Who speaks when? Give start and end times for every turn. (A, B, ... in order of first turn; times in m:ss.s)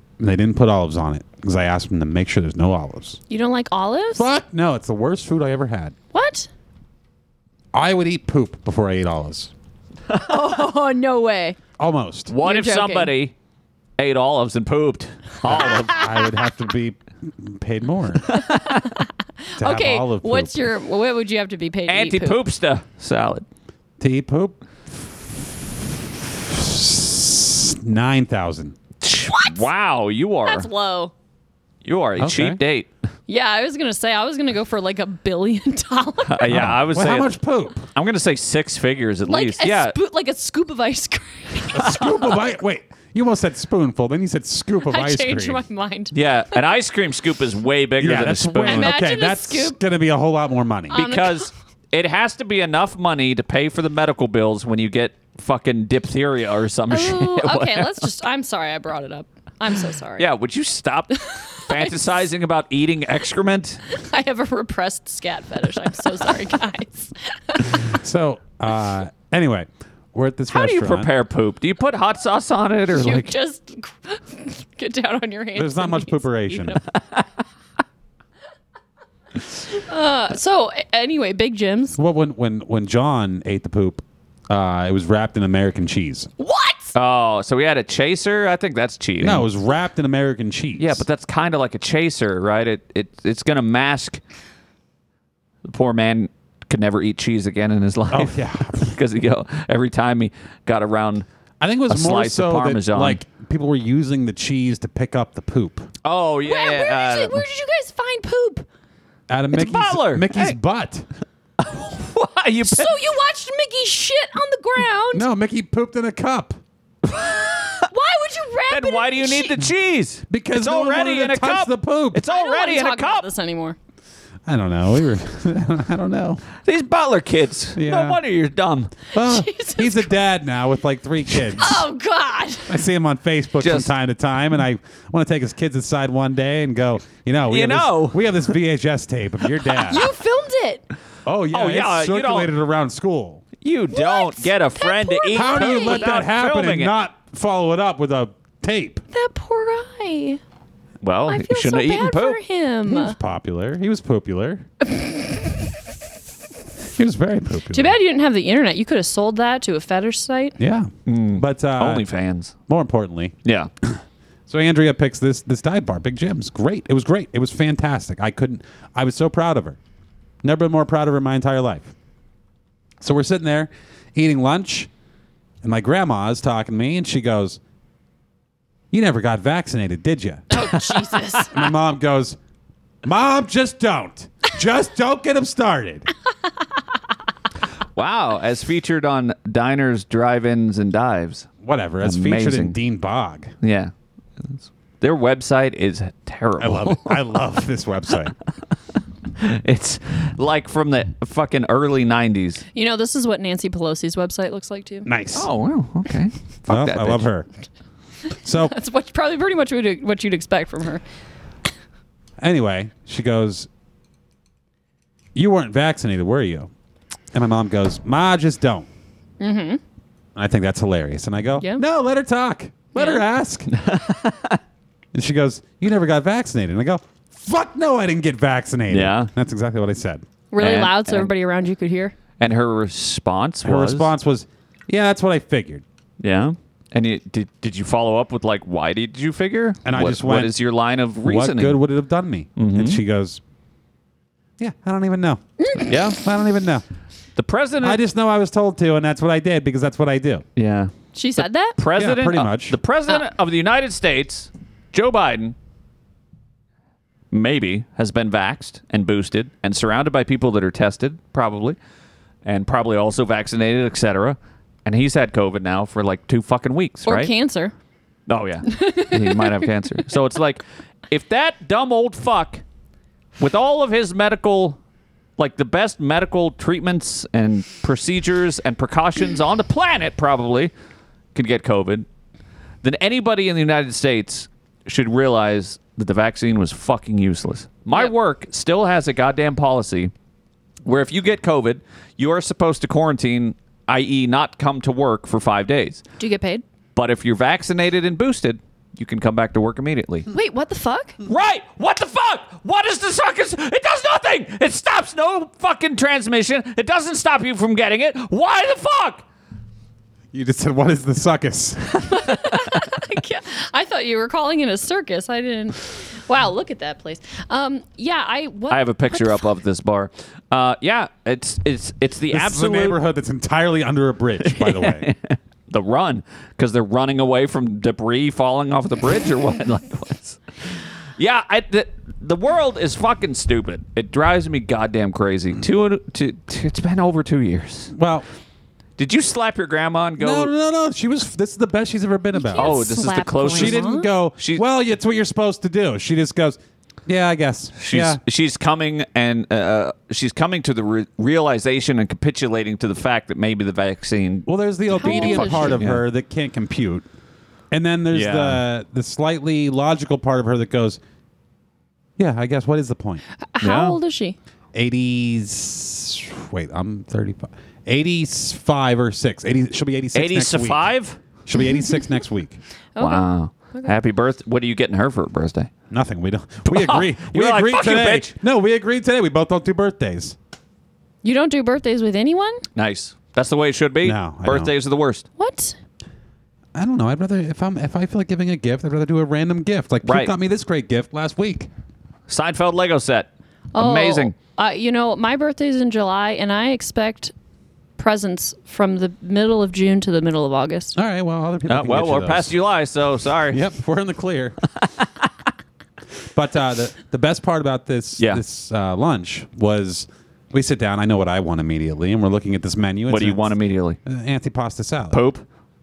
0:00.2-0:03.2 A
0:03.3-0:04.3 B
0:04.2-0:06.0 A
0:06.1-0:06.5 B
0:07.7-0:09.5 A
0:10.2-0:11.6 B
0:11.8-0:12.3 A
0:12.3-0:13.3 C
0:12.4-0:13.1 B
0:14.0-0:16.0 C
0:15.4-0:18.3 A
0:18.3-0:18.9 C
0:18.3-0:18.9 B
0:19.6-0:20.6 A
0:19.6-0:22.4 B
0:21.9-0:23.4 C
0:24.0-0:25.2 A
0:26.3-0:28.8 A
0:29.0-0:30.7 C
0:29.1-0:29.6 B
0:30.5-0:31.1 B
0:31.8-0:32.9 C
0:32.2-0:32.6 A
0:33.3-0:36.5 B
0:36.3-0:37.4 C
0:36.5-0:37.9 A
0:37.9-0:40.0 C
0:39.3-0:42.1 B
0:41.7-0:45.6 A
0:44.9-0:46.1 B
0:46.1-0:49.0 C
0:48.0-0:51.0 A
0:48.6-0:49.8 B
0:50.9-0:51.5 B
0:50.9-0:58.1 C
0:56.9-1:00.3 B
1:00.2-1:03.8 C
1:01.6-1:02.0 B
1:03.9-1:07.8 B
1:07.8-1:11.1 A
1:10.5-1:13.3 C
1:13.0-1:16.8 B
1:15.6-1:16.8 A
1:19.7-1:22.0 B
1:22.0-1:26.3 A
1:26.4-1:26.9 B
1:27.0-1:29.5 C
1:29.2-1:31.0 A
1:30.8-1:34.2 C
1:35.7-1:41.3 C
1:38.1-1:38.9 A
1:41.6-1:45.9 A
1:41.9-1:43.2 C
1:46.0-1:47.4 C
1:46.5-1:48.7 B
1:49.3-1:51.1 A
1:49.5-1:50.6 C
1:51.6-1:52.9 C
1:52.6-1:55.3 B
1:55.1-1:56.6 A
1:57.1-1:57.8 C
1:57.9-1:59.6 B
1:58.7-2:03.3 C
2:00.3-2:02.2 A
2:02.3-2:03.8 B
2:04.5-2:06.4 A
2:06.6-2:08.9 C
2:07.8-2:08.2 A
2:09.1-2:11.9 A
2:09.2-2:10.1 B
2:11.5-2:12.7 B
2:12.7-2:20.1 A
2:13.6-2:13.9 C
2:17.5-2:18.3 C
2:19.8-2:20.8 B
2:21.3-2:23.4 A
2:21.5-2:22.5 C
2:23.6-2:26.9 C
2:23.9-2:26.1 B
2:25.3-2:29.0 A
2:29.1-2:30.4 B
2:31.0-2:32.4 C
2:31.3-2:33.2 B
2:32.9-2:34.7 A
2:37.0-2:38.0 A
2:37.7-2:40.6 B
2:40.6-2:42.1 A
2:41.1-2:42.6 C
2:42.7-2:49.8 A
2:43.4-2:43.7 C
2:50.4-2:51.9 A
2:53.0-2:54.9 A
2:55.6-2:57.6 A
2:58.9-3:00.6 A
3:00.5-3:01.5 B
3:01.5-3:02.4 A
3:03.0-3:06.1 A
3:08.0-3:11.5 C
3:11.6-3:13.5 A
3:12.0-3:12.8 C
3:13.6-3:13.9 C
3:14.4-3:17.2 C
3:16.6-3:18.4 A
3:19.4-3:22.6 C
3:22.8-3:25.1 B
3:25.1-3:25.5 A
3:25.4-3:27.2 C
3:26.7-3:27.5 A
3:28.4-3:28.7 A
3:28.6-3:31.0 B
3:32.4-3:33.7 A
3:35.4-3:36.7 A
3:37.3-3:38.9 A
3:39.4-3:39.8 B
3:40.4-3:43.7 A
3:43.0-3:43.2 B
3:43.7-3:44.6 C
3:45.1-3:50.2 A
3:48.9-3:49.3 C
3:50.5-3:52.2 B
3:50.6-3:51.3 C
3:52.4-3:54.1 C
3:53.6-3:55.8 A
3:56.2-4:01.8 C
3:59.8-4:00.6 A
4:01.2-4:03.4 A
4:02.6-4:03.0 C
4:04.6-4:05.4 A
4:05.6-4:05.9 B
4:05.9-4:06.2 C
4:06.1-4:06.8 A
4:07.4-4:08.0 C
4:07.8-4:10.4 A
4:10.6-4:15.6 C
4:11.2-4:11.8 B
4:12.0-4:12.8 A
4:17.3-4:21.8 C
4:22.4-4:27.3 C
4:27.1-4:27.7 B
4:28.3-4:32.6 C
4:28.7-4:29.7 B
4:33.4-4:34.8 C
4:35.4-4:40.7 C
4:41.4-4:42.1 C
4:42.8-4:50.1 C
4:50.8-4:56.0 C
4:56.2-4:56.6 B
4:57.0-5:00.3 C
5:00.3-5:01.2 B
5:01.3-5:09.2 C
5:10.3-5:11.9 A
5:12.1-5:19.5 B
5:18.7-5:23.0 C
5:22.3-5:25.1 A
5:24.4-5:30.4 C
5:31.2-5:37.9 C
5:37.9-5:38.3 A
5:39.0-5:40.5 C
5:40.2-5:42.9 A
5:42.4-5:44.1 B
5:42.6-5:43.9 C
5:43.5-5:48.2 A
5:47.8-5:56.0 C
5:54.5-5:57.1 A
5:54.9-5:55.8 B
5:57.7-6:01.0 A
5:58.1-5:58.6 C
6:02.2-6:03.2 A
6:03.5-6:04.4 B
6:03.6-6:04.0 C
6:04.7-6:10.9 A
6:10.2-6:11.2 C
6:11.4-6:12.6 A
6:11.6-6:12.0 B
6:13.0-6:14.0 B
6:13.0-6:15.7 C
6:15.9-6:20.4 A
6:16.7-6:18.3 C
6:21.2-6:22.6 B
6:22.8-6:25.2 C
6:24.0-6:24.7 A
6:25.4-6:25.8 B
6:26.8-6:31.7 A
6:30.0-6:30.3 C
6:32.3-6:34.4 C
6:33.8-6:37.3 B
6:38.0-6:41.0 B
6:41.0-6:42.6 A
6:41.7-6:43.7 C
6:43.5-6:44.6 A
6:46.3-6:53.5 A
6:53.1-6:54.0 C
6:54.1-6:55.2 A
6:55.1-6:55.4 C